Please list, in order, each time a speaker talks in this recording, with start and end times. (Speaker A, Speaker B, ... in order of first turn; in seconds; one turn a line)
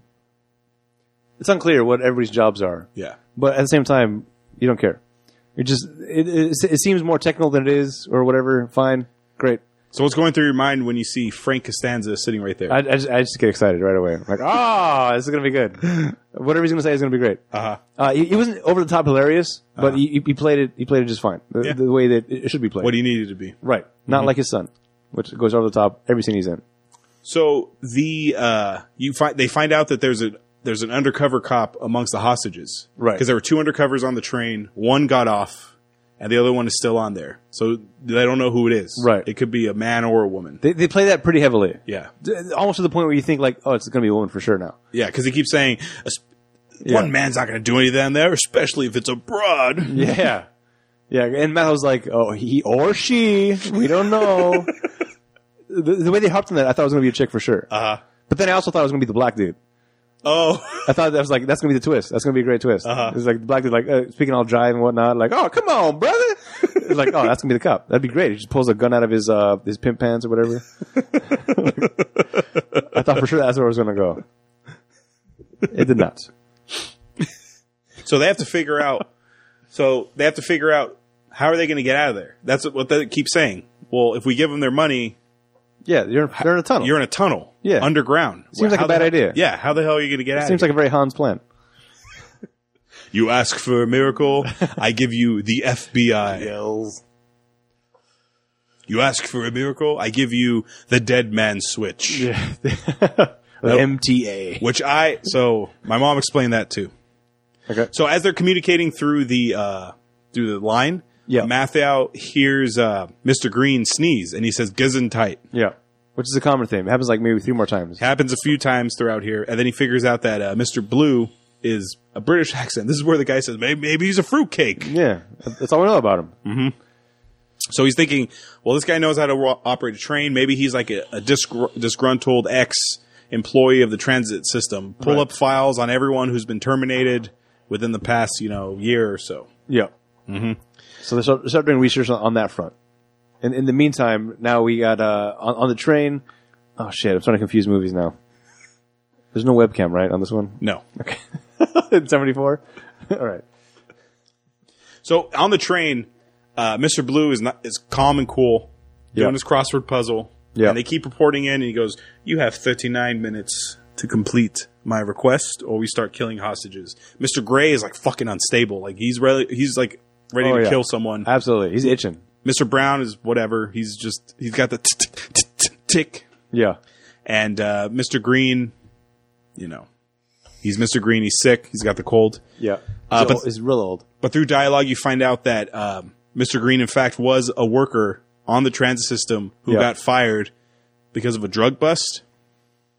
Speaker A: 1.4-5.0
Speaker A: 5.5-9.6
Speaker B: 9.9-12.8
Speaker A: 12.7-17.4
Speaker B: 17.5-17.8
Speaker A: 17.9-22.9
Speaker B: 22.8-23.6
Speaker A: 23.6-26.6
Speaker B: 27.2-40.6
Speaker A: 33.0-33.2
Speaker A: 39.0-39.2
Speaker A: 40.6-44.8
Speaker B: 44.9-46.2
Speaker B: 46.8-50.1
Speaker A: 46.8-47.1
Speaker A: 49.9-50.5
Speaker A: 51.1-54.8
Speaker A: 55.7-57.7
Speaker B: 57.7-58.0
Speaker A: 58.3-59.6
Speaker B: 60.2-60.9
Speaker A: 60.8-71.9
Speaker B: 62.8-63.1
Speaker A: 72.8-74.2
Speaker A: 75.7-76.3
Speaker B: 78.0-79.0
Speaker B: 79.7-85.2
Speaker A: 85.8-86.9
Speaker B: 86.8-90.7
Speaker A: 87.6-87.9
Speaker A: 88.5-89.4
Speaker A: 90.4-91.4
Speaker B: 93.1-96.5
Speaker A: 96.3-97.0
Speaker B: 98.9-102.3
Speaker A: 102.1-104.6
Speaker B: 104.6-106.9
Speaker B: 107.9-115.4
Speaker A: 115.5-118.0
Speaker B: 118.0-124.9
Speaker A: 124.8-126.3
Speaker B: 126.4-126.7
Speaker B: 127.7-139.5
Speaker A: 135.0-135.2
Speaker B: 140.3-140.6
Speaker A: 141.0-142.7
Speaker A: 143.4-146.2
Speaker A: 146.8-148.1
Speaker A: 149.3-153.4
Speaker B: 155.0-171.3
Speaker A: 170.4-172.2
Speaker B: 172.4-176.3
Speaker A: 176.5-176.8
Speaker B: 177.2-178.7
Speaker B: 179.6-179.9
Speaker B: 180.6-182.4
Speaker A: 182.6-184.0
Speaker B: 183.1-183.4
Speaker B: 184.2-190.5
Speaker B: 191.1-192.2